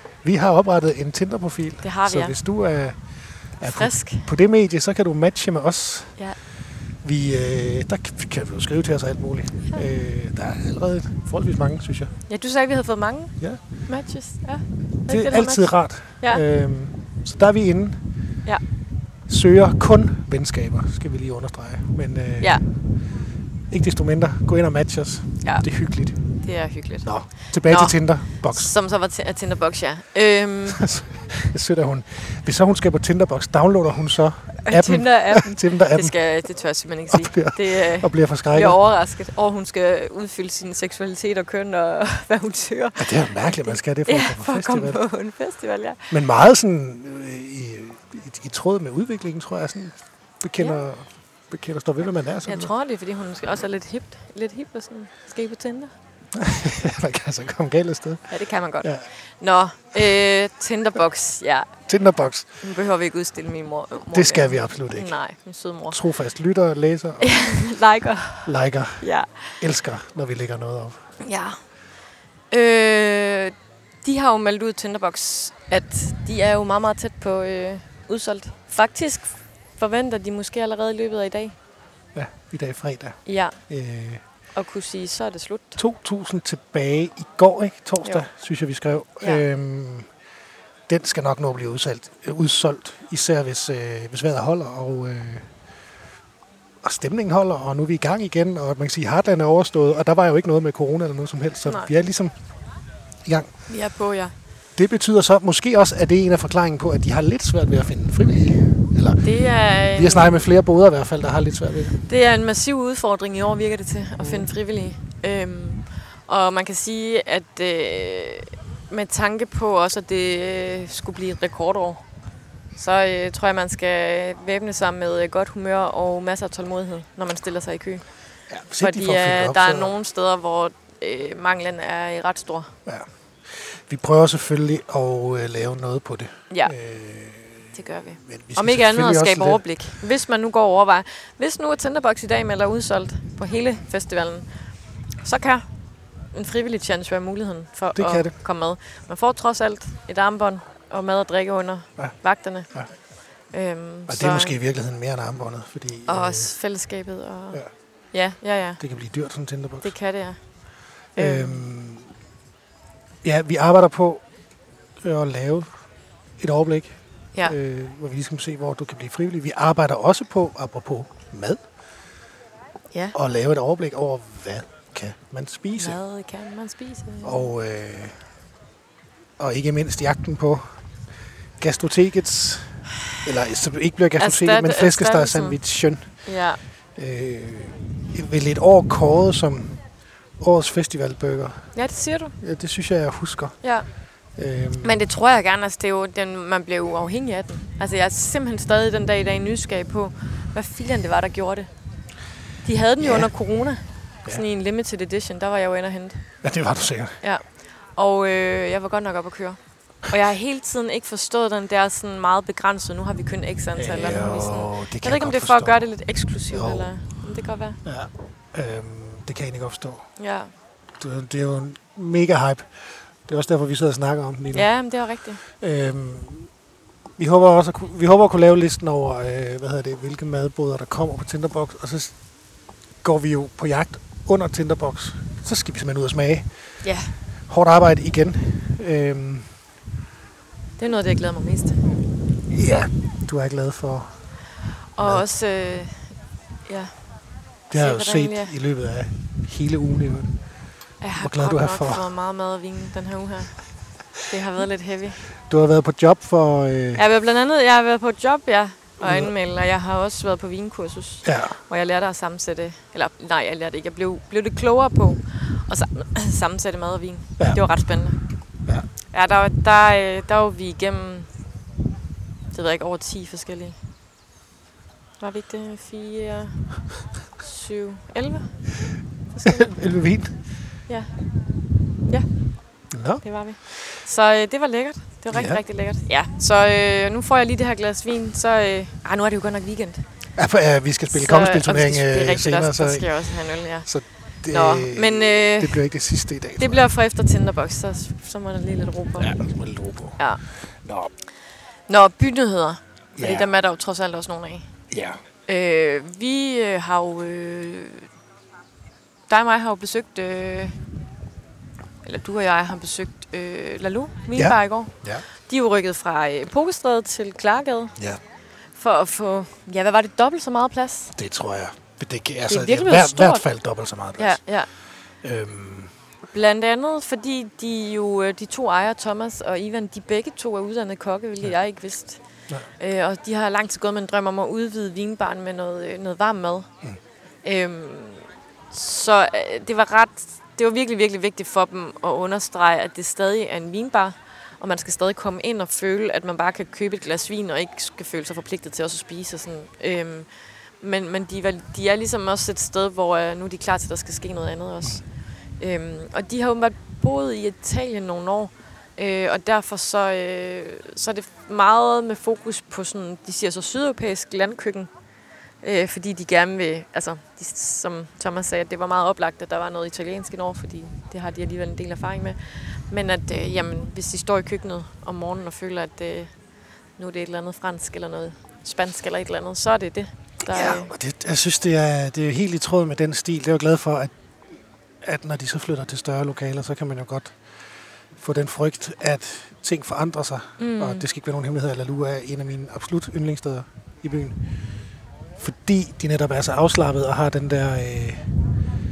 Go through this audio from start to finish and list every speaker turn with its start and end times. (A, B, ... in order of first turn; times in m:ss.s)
0:00.2-0:06.2 A
0:01.8-0:02.4 B
0:03.6-0:04.3 B
0:07.0-0:12.1 A
0:12.3-0:16.4 B
0:15.0-0:18.0 A
0:19.3-0:22.9 A
0:23.7-0:26.4 A
0:26.2-0:30.9 B
0:27.0-0:28.7 A
0:30.7-0:36.2 A
0:34.6-0:46.1 B
0:37.1-0:38.8 A
0:43.0-0:45.1 A
0:46.1-0:52.7 A
0:50.6-0:50.8 B
0:52.4-0:55.9 B
0:56.3-0:59.1 A
0:58.3-1:01.8 B
1:01.9-1:02.5 A
1:02.6-1:06.0 B
1:04.1-1:05.2 A
1:05.9-1:07.5 A
1:07.2-1:09.6 B
1:08.4-1:11.0 A
1:11.2-1:11.7 B
1:12.5-1:21.6 B
1:22.1-1:24.2 A
1:23.2-1:23.6 B
1:24.5-1:25.8 B
1:25.8-1:30.1 A
1:30.9-1:35.5 A
1:36.8-1:42.5 A
1:41.6-1:41.9 B
1:43.2-1:43.5 A
1:43.7-1:44.3 B
1:44.8-1:52.0 A
1:49.2-1:50.4 B
1:52.0-2:02.0 B
1:54.2-1:54.5 A
2:02.7-2:08.1 B
2:08.5-2:09.9 A
2:08.8-2:12.7 B
2:12.8-2:19.8 A
2:17.7-2:25.7 B
2:26.3-2:34.6 B
2:27.9-2:28.4 A
2:34.1-2:36.5 A
2:36.1-2:38.8 B
2:38.8-2:39.9 A
2:39.8-2:41.6 B
2:41.2-2:42.1 A
2:43.2-2:44.3 A
2:45.0-2:45.8 A
2:46.4-2:51.6 A
2:52.9-2:53.2 B
2:53.1-2:56.0 A
2:55.8-2:57.5 B
2:57.2-2:58.2 A
2:59.4-3:00.8 A
3:01.6-3:06.4 A
3:04.2-3:06.6 B
3:07.0-3:09.8 A
3:10.4-3:11.7 A
3:11.7-3:12.3 B
3:12.4-3:13.7 A
3:13.6-3:13.9 B
3:14.3-3:15.0 A
3:14.8-3:21.7 B
3:22.6-3:26.4 B
3:23.0-3:23.5 A
3:26.4-3:27.2 A
3:27.2-3:37.8 B
3:33.8-3:35.9 A
3:36.5-3:37.0 A
3:37.8-3:40.1 A
3:40.2-3:40.5 B
3:41.0-3:46.5 A
3:44.5-3:45.4 B
3:47.2-3:52.2 A
3:53.0-3:56.5 A
3:56.8-3:57.2 B
3:57.5-3:59.6 A
4:00.8-4:01.8 B
4:02.5-4:04.2 A
4:05.0-4:07.0 B
4:07.7-4:10.4 A
4:07.7-4:08.5 B
4:11.0-4:15.2 B
4:11.2-4:12.0 A
4:15.4-4:17.0 A
4:17.0-4:28.2 B
4:19.0-4:19.3 A
4:21.2-4:21.6 A
4:29.1-4:31.3 B
4:32.5-4:33.8 B
4:35.2-4:36.8 B
4:37.3-4:38.7 B
4:39.4-4:39.8 B
4:39.4-4:40.4 A
4:40.9-4:41.2 B
4:42.1-4:42.4 B
4:42.9-4:43.7 A
4:43.2-4:50.0 B
4:45.3-4:45.6 A
4:50.4-4:56.8 A
4:51.1-4:53.9 B
4:54.5-4:55.8 B
4:56.6-4:59.3 B
4:59.2-5:01.1 A
5:00.2-5:00.4 B
5:01.9-5:04.7 B
5:03.2-5:03.5 A
5:04.9-5:05.2 A
5:05.4-5:08.1 B
5:09.3-5:10.8 B
5:12.0-5:18.0 B
5:14.3-5:15.2 A
5:18.7-5:21.2 B
5:21.2-5:25.9 A
5:22.5-5:23.5 B
5:24.2-5:24.7 B
5:26.3-5:36.7 B
5:37.4-6:04.9 B
6:05.6-6:16.3 B
6:17.0-6:20.9 B
6:20.4-6:24.1 A
6:25.0-6:27.4 A
6:28.2-6:34.4 A
6:30.6-6:31.0 B
6:35.4-6:38.3 A